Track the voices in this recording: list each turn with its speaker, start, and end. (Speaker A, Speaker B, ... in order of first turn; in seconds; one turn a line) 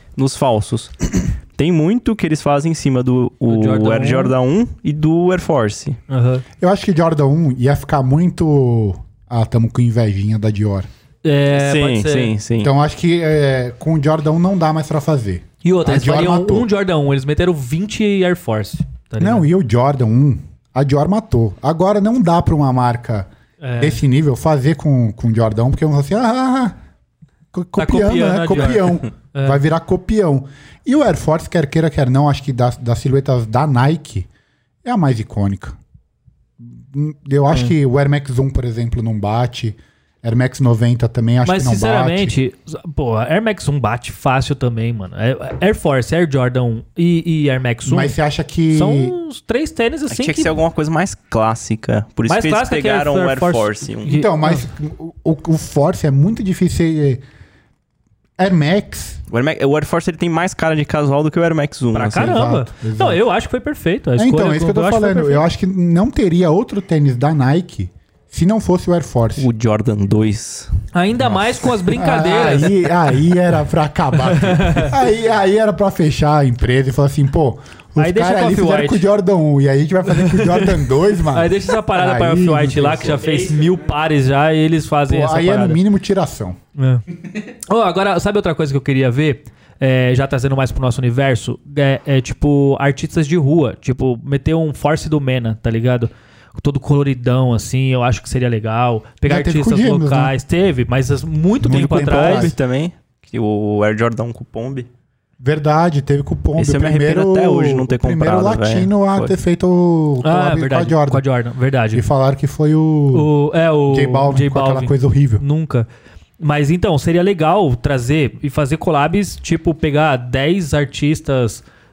Speaker A: 0.1-6.0
Speaker B: 3.5-4.3
Speaker B: 6.1-6.4
Speaker C: 6.6-10.9
Speaker B: 11.2-12.3
Speaker A: 11.5-12.7
Speaker C: 12.6-16.7
Speaker B: 15.6-19.5
Speaker C: 19.2-26.8
Speaker B: 23.6-24.0
Speaker C: 27.5-34.3
Speaker B: 27.8-29.6
Speaker C: 34.8-35.8
Speaker C: 36.6-42.3
Speaker B: 41.4-48.1
Speaker C: 47.8-49.1
Speaker B: 48.7-50.5
Speaker A: 50.1-54.2
Speaker B: 52.2-54.6
Speaker C: 54.0-57.2
Speaker C: 58.4-59.2
Speaker A: 59.3-62.3
Speaker B: 61.9-65.4
Speaker C: 62.1-63.2
Speaker C: 64.2-69.5
Speaker A: 69.4-70.7
Speaker B: 70.9-72.8
Speaker C: 71.2-83.3
Speaker B: 74.3-74.9
Speaker B: 78.0-79.0
Speaker B: 80.1-85.8
Speaker C: 85.1-86.6
Speaker B: 86.8-87.0
Speaker B: 87.7-102.5
Speaker C: 99.2-100.3
Speaker C: 101.6-102.5
Speaker A: 101.7-104.9
Speaker C: 105.4-111.2
Speaker A: 106.6-109.3
Speaker B: 110.2-112.0
Speaker C: 111.9-113.3
Speaker B: 113.1-115.9
Speaker C: 113.9-115.4
Speaker B: 116.4-121.6